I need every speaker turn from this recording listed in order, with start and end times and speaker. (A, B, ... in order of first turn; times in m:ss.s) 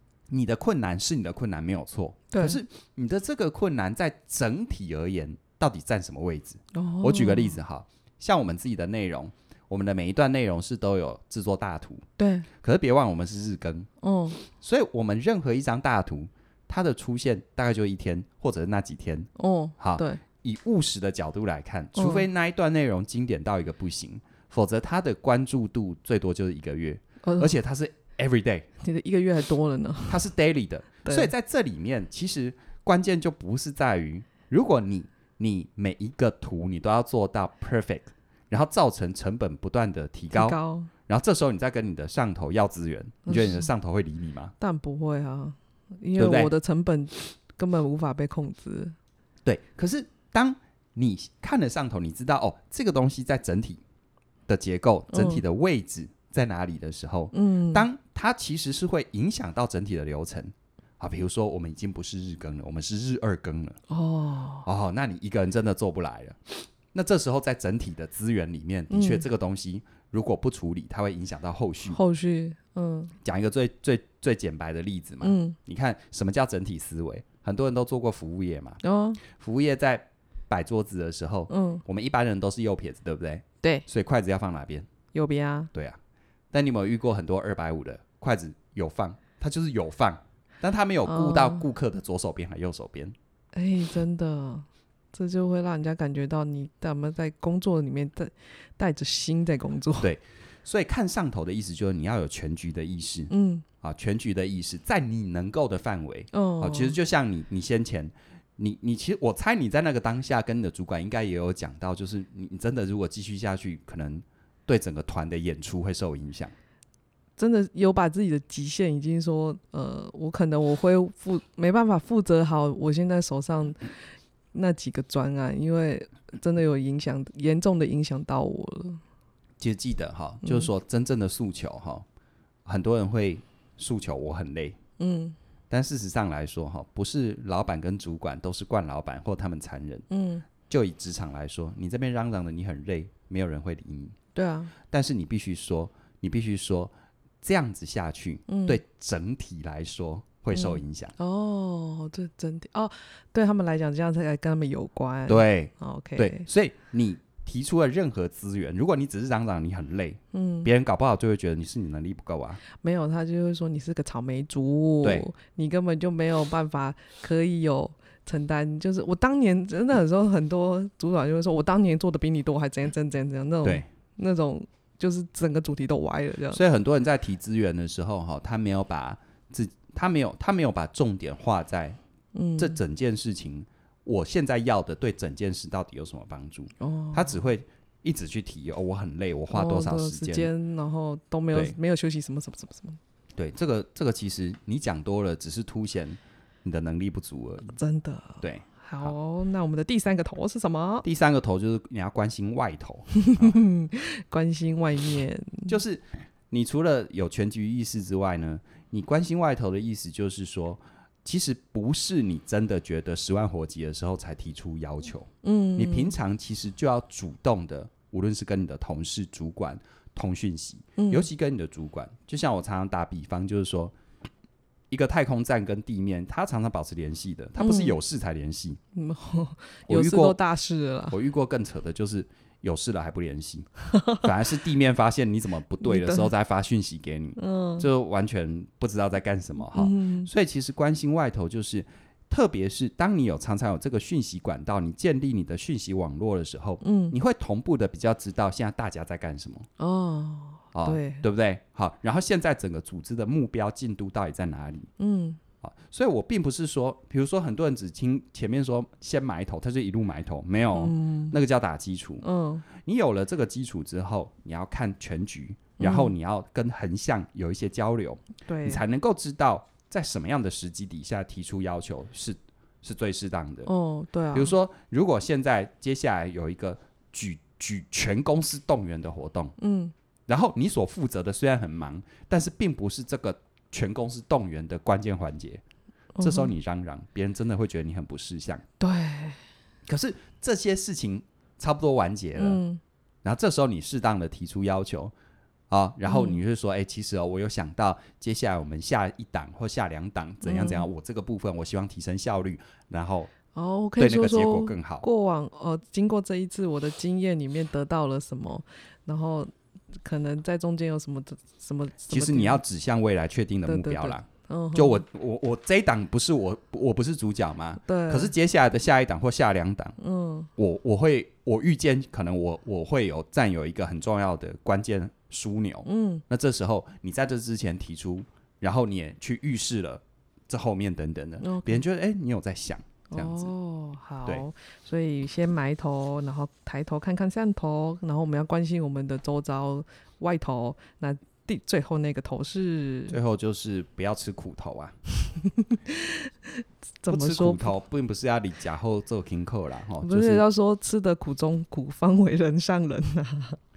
0:00.3-0:12.1 A
0:02.3-0:02.6 B
0:06.7-0:07.6 B
0:12.2-0:12.5 B
0:12.6-0:13.9 A
0:14.0-0:14.4 B
0:14.4-0:28.7 A
0:19.4-0:20.2 B
0:22.0-0:22.3 B
0:27.2-0:27.5 B
0:28.8-0:30.2 B
0:30.1-0:44.5 A
0:31.0-0:31.3 B
0:40.3-0:40.9 B
0:43.3-0:43.7 B
0:44.6-0:49.0 B
0:46.2-0:46.5 A
0:49.4-0:53.8 A
0:54.5-1:03.8 A
0:55.1-0:55.4 B
0:57.3-0:57.9 B
1:03.9-1:04.7 B
1:04.6-1:12.0 A
1:08.9-1:09.2 B
1:11.9-1:13.1 B
1:13.2-1:24.9 A
1:15.2-1:15.6 B
1:18.8-1:19.2 B
1:21.5-1:21.8 B
1:25.1-1:25.7 B
1:25.7-1:26.0 A
1:26.5-1:33.2 A
1:31.1-1:31.6 B
1:33.5-1:40.1 B
1:40.0-1:56.5 A
1:43.3-1:43.7 B
1:46.3-1:47.0 B
1:57.4-2:03.8 B
2:04.5-2:09.0 B
2:09.6-2:12.1 A
2:10.4-2:10.7 B
2:12.7-2:14.8 A
2:15.0-2:15.4 B
2:15.7-2:20.1 A
2:20.1-2:20.5 B
2:20.7-2:24.2 A
2:24.4-2:24.7 B
2:24.9-2:31.2 A
2:28.5-2:28.8 B
2:30.5-2:36.5 B
2:35.3-2:42.6 A
2:40.3-2:40.7 B
2:42.8-2:56.6 B
2:56.5-3:02.0 A
3:02.3-3:02.8 B
3:02.6-3:10.5 A
3:06.8-3:07.4 B
3:09.5-3:13.0 B
3:13.4-3:17.8 A
3:17.8-3:21.0 B
3:18.4-3:19.1 A
3:21.0-3:23.6 A
3:23.2-3:25.8 B
3:25.7-3:44.0 A
3:35.4-3:36.1 B
3:41.0-3:41.3 B
3:44.9-3:48.8 A
3:47.6-3:48.0 B
3:49.0-3:51.2 B
3:49.9-3:50.4 A
3:51.1-4:09.7 A
3:53.9-3:54.2 B
3:55.8-3:56.3 B
3:57.4-3:57.9 B
3:59.7-4:00.3 B
4:06.8-4:07.2 B
4:09.8-4:11.2 B
4:10.7-4:14.9 A
4:15.0-4:15.4 B
4:15.6-4:22.2 A
4:20.7-4:21.4 B
4:22.2-4:22.6 B
4:22.8-4:33.7 A
4:25.8-4:26.1 B
4:28.5-4:28.8 B
4:33.7-4:34.6 B
4:34.3-4:39.6 A
4:39.6-4:39.9 B
4:40.3-4:45.6 A
4:46.2-4:46.5 B
4:46.2-4:48.6 A
4:48.8-4:49.4 B
4:49.9-4:52.6 A
4:52.4-4:52.8 B
4:53.2-4:55.1 A
4:55.7-5:03.3 A
4:56.1-4:56.4 B
5:00.4-5:00.9 B
5:03.5-5:12.6 B
5:04.0-5:05.1 A
5:12.1-5:20.0 A
5:13.7-5:15.0 B
5:17.9-5:18.3 B
5:20.0-5:20.5 B
5:20.6-5:33.5 A
5:25.9-5:26.2 B
5:31.4-5:31.8 B
5:33.1-5:43.2 B
5:43.1-5:45.0 A
5:45.4-5:47.7 B
5:47.1-5:50.4 A
5:50.0-5:53.6 B